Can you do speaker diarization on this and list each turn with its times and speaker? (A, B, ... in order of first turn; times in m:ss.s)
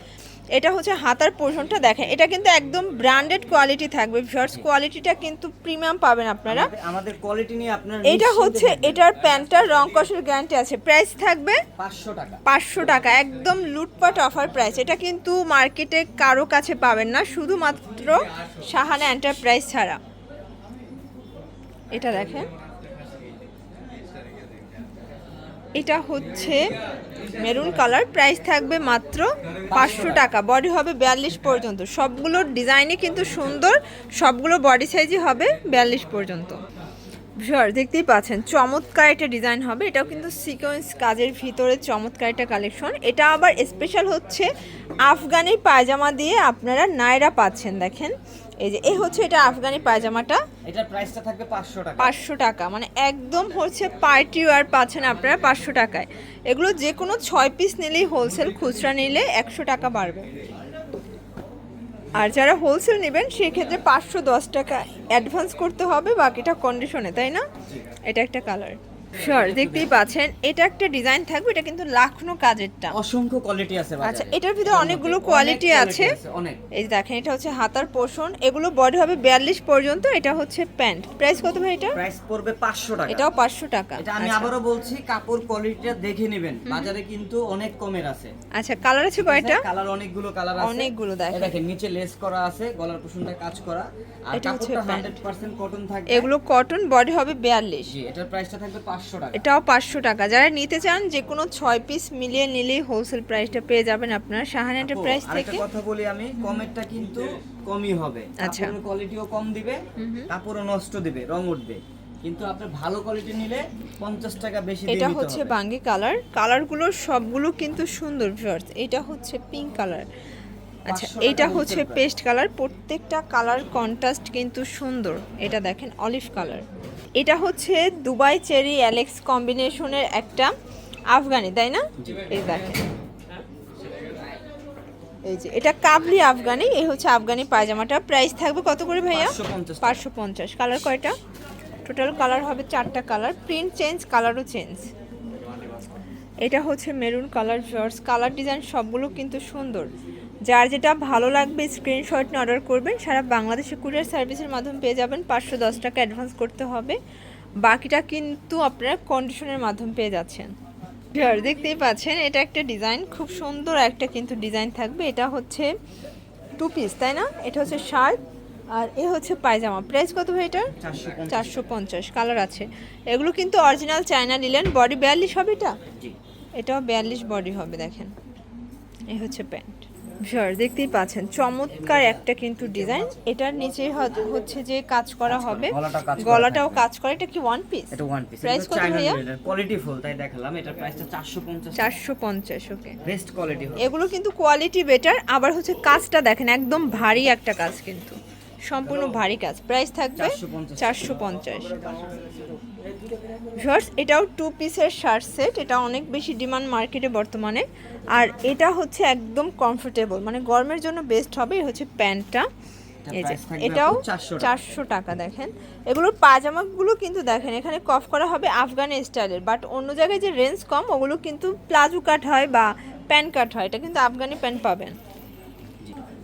0:00.5-0:06.7 A
0:06.5-0:09.0 B
0:08.0-0:11.6 A
0:11.8-0:12.4 B
0:12.4-0:20.0 A
0:21.9-0:22.5 A
0:25.8-0:26.7 A
0:27.3-0:36.6 A
0:29.7-0:30.3 B
0:37.4-0:44.5 A
0:45.0-0:50.4 A
0:50.6-0:52.2 B
0:52.0-1:00.3 A
1:02.1-1:07.4 A
1:08.1-1:13.0 A
1:09.2-1:09.9 B
1:12.9-1:16.6 B
1:14.0-1:16.2 A
1:16.7-1:22.0 A
1:21.9-1:23.3 B
1:23.1-1:24.5 A
1:24.0-1:28.3 B
1:26.7-1:26.9 A
1:28.5-1:29.6 A
1:29.2-1:36.3 B
1:30.6-1:31.6 A
1:34.3-1:35.2 A
1:36.1-1:37.9 A
1:37.9-1:39.4 B
1:39.4-1:45.6 A
1:44.8-1:55.6 B
1:46.4-1:46.6 A
1:48.4-1:48.8 A
1:50.0-1:50.3 A
1:54.9-2:00.1 A
2:00.9-2:02.1 B
2:00.9-2:06.6 A
2:07.2-2:10.5 A
2:11.1-2:12.8 A
2:12.0-2:12.3 B
2:15.2-2:21.2 A
2:19.1-2:20.0 B
2:21.8-2:24.9 A
2:26.4-2:29.9 A
2:30.5-2:37.0 A
2:37.6-2:40.5 A
2:41.1-2:45.7 A
2:46.6-2:48.2 A
2:48.7-2:50.7 A
2:50.8-2:51.7 B
2:51.3-2:55.8 A
2:56.6-2:58.1 A
2:59.1-3:09.2 A
3:01.9-3:02.2 B
3:05.2-3:06.8 B
3:07.9-3:12.0 B
3:11.8-3:13.0 A
3:13.0-3:13.9 B
3:13.8-3:22.0 A
3:20.2-3:21.3 B
3:22.0-3:22.2 B
3:23.6-3:32.5 A
3:33.0-3:34.6 B
3:33.1-3:45.0 A